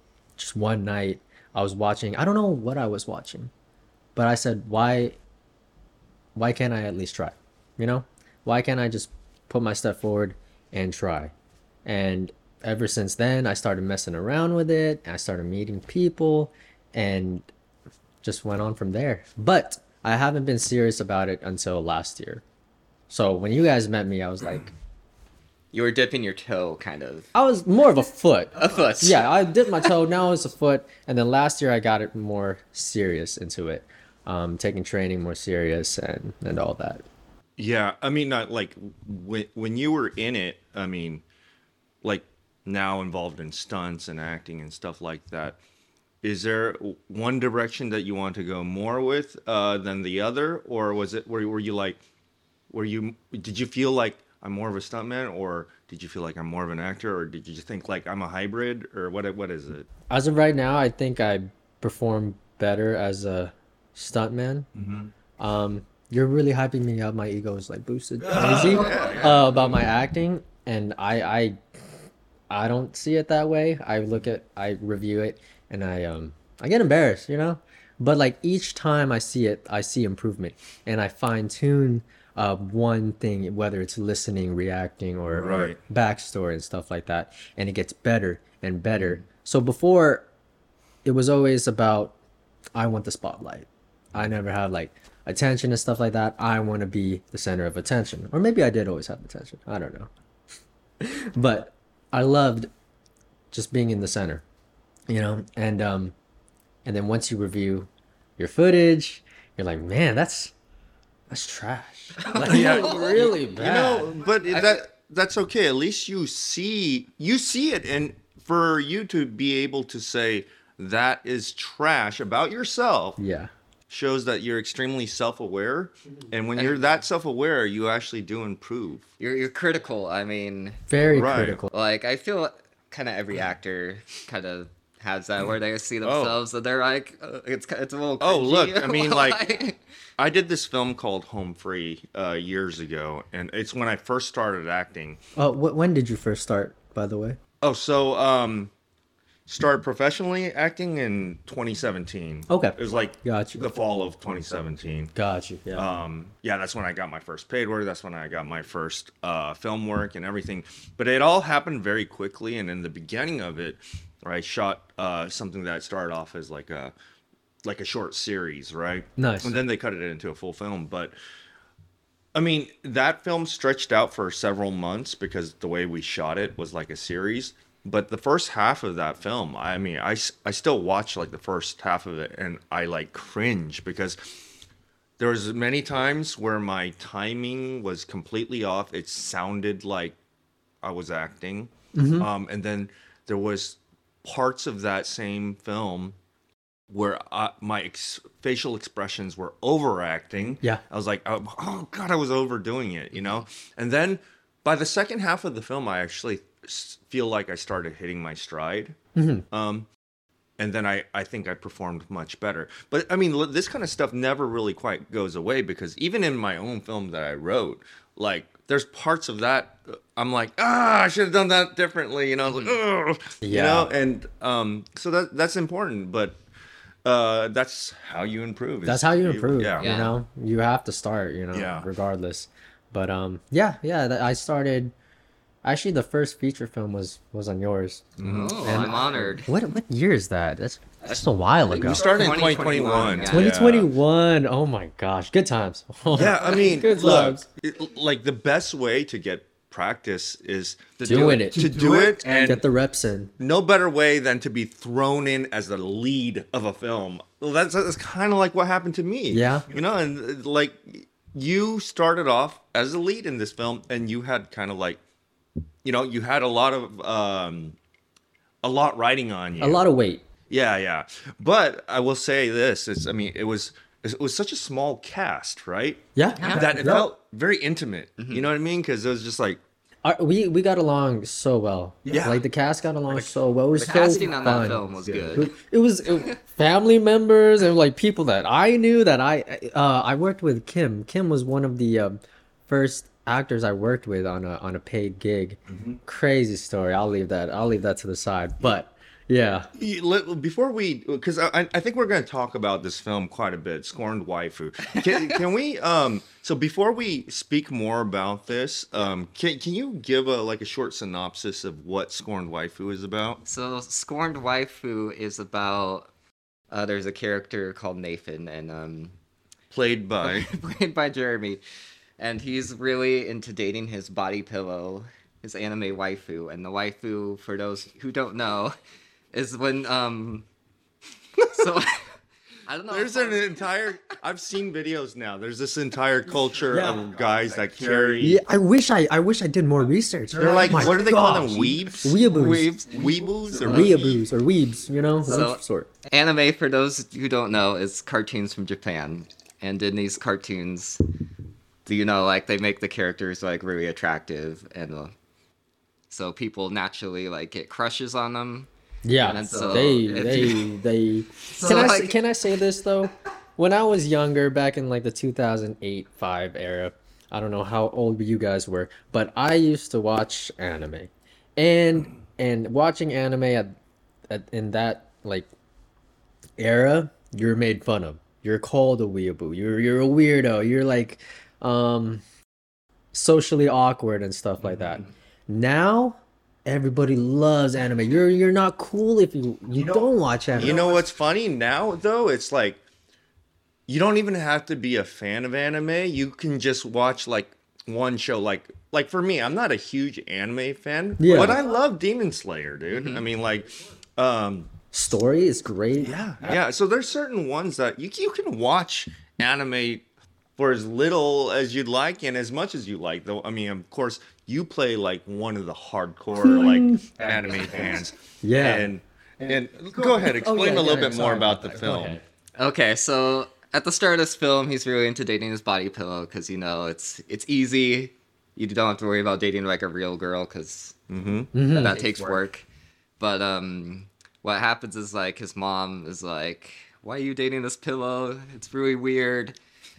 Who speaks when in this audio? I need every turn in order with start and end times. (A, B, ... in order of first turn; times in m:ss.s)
0:00.4-0:03.5 A
0:04.2-0:05.2 A
0:06.4-0:11.3 A
0:11.8-0:17.5 A
0:18.2-0:22.4 A
0:23.1-0:24.7 A
0:25.7-0:27.3 B
0:27.3-0:37.0 A
0:28.6-0:29.9 B
0:37.6-0:41.2 C
0:42.0-0:45.6 C
0:46.2-0:52.0 C
0:52.7-0:59.9 C
1:00.1-1:04.7 A
1:04.8-1:05.1 C
1:05.4-1:11.6 A
1:08.2-1:09.7 C
1:08.6-1:09.2 B
1:12.5-1:30.3 A
1:25.3-1:25.8 C
1:31.0-1:32.2 A
1:32.8-1:40.1 A
1:41.0-1:42.7 A
1:43.5-1:44.4 A
1:45.1-1:46.1 A
1:46.8-1:50.5 A
1:51.3-1:54.1 A
1:52.2-1:53.3 B
1:52.4-2:03.2 C
1:54.5-1:54.8 B
2:03.2-2:03.5 A
2:03.9-2:09.1 C
2:06.6-2:06.8 B
2:09.2-2:10.8 B
2:10.9-2:11.7 A
2:11.1-2:11.6 C
2:11.7-2:19.8 B
2:16.0-2:16.4 C
2:18.2-2:19.4 C
2:20.2-2:25.2 C
2:25.4-2:27.4 A
2:27.6-2:28.7 C
2:29.5-2:35.1 C
2:32.5-2:33.8 A
2:35.2-2:35.9 A
2:35.8-2:46.9 C
2:47.6-2:51.2 C
2:49.2-2:49.6 A
2:52.3-3:04.2 C
3:05.2-3:10.2 C
3:10.8-3:16.2 C
3:11.9-3:12.3 A
3:16.9-3:29.0 C
3:29.2-3:29.5 A
3:29.5-3:29.9 C
3:30.6-3:46.4 C
3:43.4-3:43.9 A
3:47.0-3:50.0 C
3:48.8-3:54.9 A
3:49.8-3:50.2 B
3:51.5-3:51.9 C
3:55.6-4:02.1 A
3:58.2-3:58.7 C
3:58.2-3:59.5 B
4:01.0-4:03.6 B
4:01.8-4:03.9 C
4:03.3-4:07.4 A
4:06.1-4:12.6 C
4:06.2-4:06.8 B
4:11.0-4:13.3 A
4:13.4-4:25.0 C
4:19.3-4:19.7 A
4:25.8-4:27.8 C
4:28.6-4:29.8 C
4:29.6-4:30.2 A
4:30.5-4:39.6 C
4:36.2-4:37.1 A
4:36.4-4:36.7 B
4:38.2-4:38.4 B
4:40.0-4:59.7 A
4:42.1-4:42.4 C
4:43.8-4:45.5 B
4:59.8-5:13.4 C
5:05.0-5:05.2 B
5:13.4-5:16.1 B
5:16.7-5:19.2 B
5:19.7-5:20.5 C
5:20.2-5:21.6 B
5:22.2-5:28.8 B
5:29.3-5:30.4 B
5:31.4-5:32.1 B
5:32.7-5:33.6 B
5:32.9-5:38.4 C
5:36.7-5:37.0 A
5:38.2-5:42.8 A
5:40.4-5:42.2 C
5:42.3-5:42.9 B
5:42.8-5:44.3 C
5:43.6-5:45.9 A
5:45.2-5:51.0 B
5:51.9-5:55.1 B
5:56.1-5:58.7 B
5:59.0-6:13.8 A
5:59.2-6:00.8 B
6:01.5-6:02.2 B
6:14.3-6:15.5 A
6:16.6-6:22.2 A
6:23.1-6:30.8 A
6:30.6-6:32.8 C
6:33.9-6:44.7 C
6:41.2-6:41.6 A
6:42.9-6:43.2 B
6:44.9-6:46.6 A
6:46.0-6:50.0 C
6:50.6-7:02.2 C
6:56.4-6:57.1 A
6:58.4-6:58.9 A
7:00.1-7:02.2 A
7:02.6-7:11.0 B
7:11.1-7:11.5 C
7:11.5-7:12.1 A
7:11.6-7:12.6 B
7:13.2-7:19.6 B